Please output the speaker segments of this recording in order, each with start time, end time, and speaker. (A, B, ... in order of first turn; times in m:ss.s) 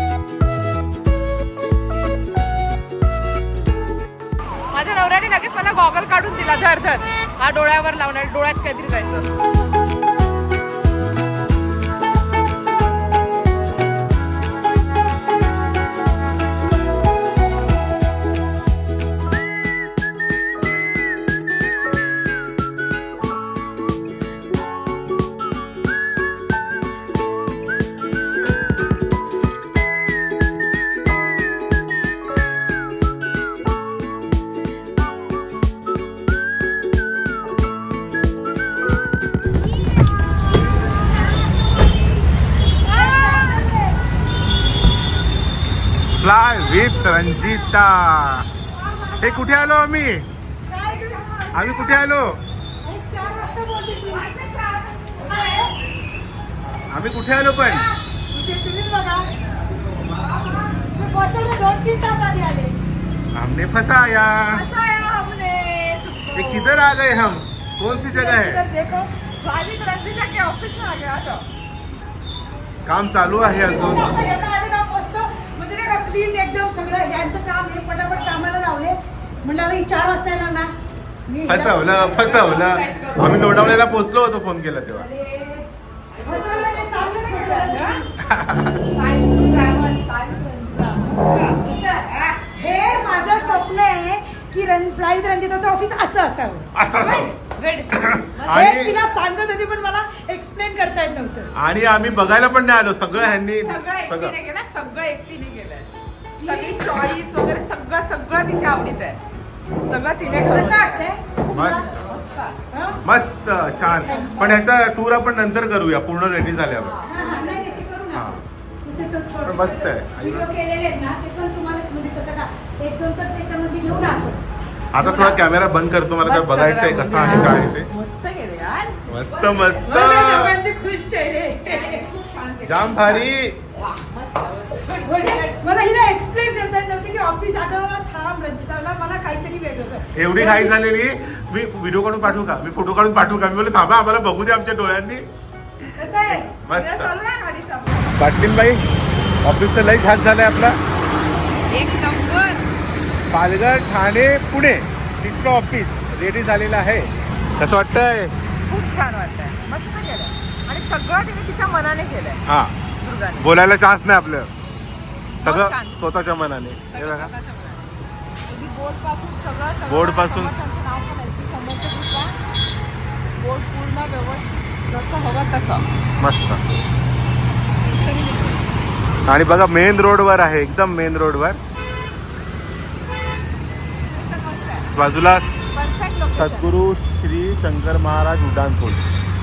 0:04.7-0:09.3 A
0:42.8-0:43.8 A
0:42.9-0:43.9 B
0:46.2-0:48.5 C
0:49.0-0:49.2 B
0:49.2-0:50.3 C
0:50.7-0:51.7 A
0:50.7-0:51.4 B
0:51.5-0:52.4 C
0:52.8-0:54.3 B
0:54.0-0:55.7 A
0:56.9-0:57.9 C
0:57.6-0:57.9 A
0:58.3-0:59.3 B
1:00.0-1:00.9 A
1:00.9-1:02.8 B
1:03.3-1:04.6 C
1:04.4-1:06.9 A
1:06.3-1:08.7 C
1:08.0-1:09.1 B
1:09.2-1:11.5 A
1:12.9-1:14.1 C
1:13.5-1:20.7 B
1:21.3-1:21.7 B
1:21.5-1:25.1 C
1:21.7-1:23.9 A
1:25.2-1:25.6 A
1:26.1-1:28.1 A
1:26.2-1:28.1 B
1:28.2-1:28.8 C
1:28.8-1:33.7 A
1:31.7-1:36.7 B
1:36.7-1:37.4 C
1:37.0-1:38.8 A
1:37.9-1:39.0 C
1:38.5-1:41.5 B
1:41.6-1:44.4 C
1:43.2-1:49.2 A
1:46.4-1:46.9 B
1:49.9-1:52.6 A
1:50.3-1:51.9 B
1:51.5-1:51.9 C
1:52.7-1:53.0 B
1:53.0-1:57.0 C
1:54.1-1:54.4 B
1:54.3-1:54.5 A
1:56.8-1:57.9 A
1:57.0-1:58.3 B
1:58.1-1:58.4 C
1:58.8-2:04.4 B
1:59.5-2:00.5 C
2:04.9-2:07.9 C
2:05.0-2:05.4 A
2:06.2-2:10.3 A
2:09.1-2:10.6 C
2:09.9-2:12.0 B
2:11.6-2:15.7 A
2:12.6-2:13.6 C
2:15.2-2:20.8 B
2:20.2-2:25.3 C
2:25.8-2:27.1 C
2:26.0-2:26.5 B
2:26.3-2:28.2 A
2:28.2-2:28.9 C
2:29.4-2:30.8 C
2:31.6-2:32.6 A
2:33.3-2:38.3 C
2:38.7-2:42.4 A
2:42.5-2:42.8 C
2:43.0-2:43.5 A
2:43.4-2:44.5 C
2:45.4-2:46.1 A
2:45.4-2:47.3 C
2:46.9-2:47.9 A
2:48.5-2:52.4 A
2:49.9-2:50.7 C
2:53.4-2:55.9 A
2:56.2-2:56.7 C
2:57.8-2:58.7 A
2:59.3-3:01.6 C
3:04.1-3:05.0 A
3:04.9-3:05.7 C
3:05.7-3:06.7 A
3:06.4-3:09.1 C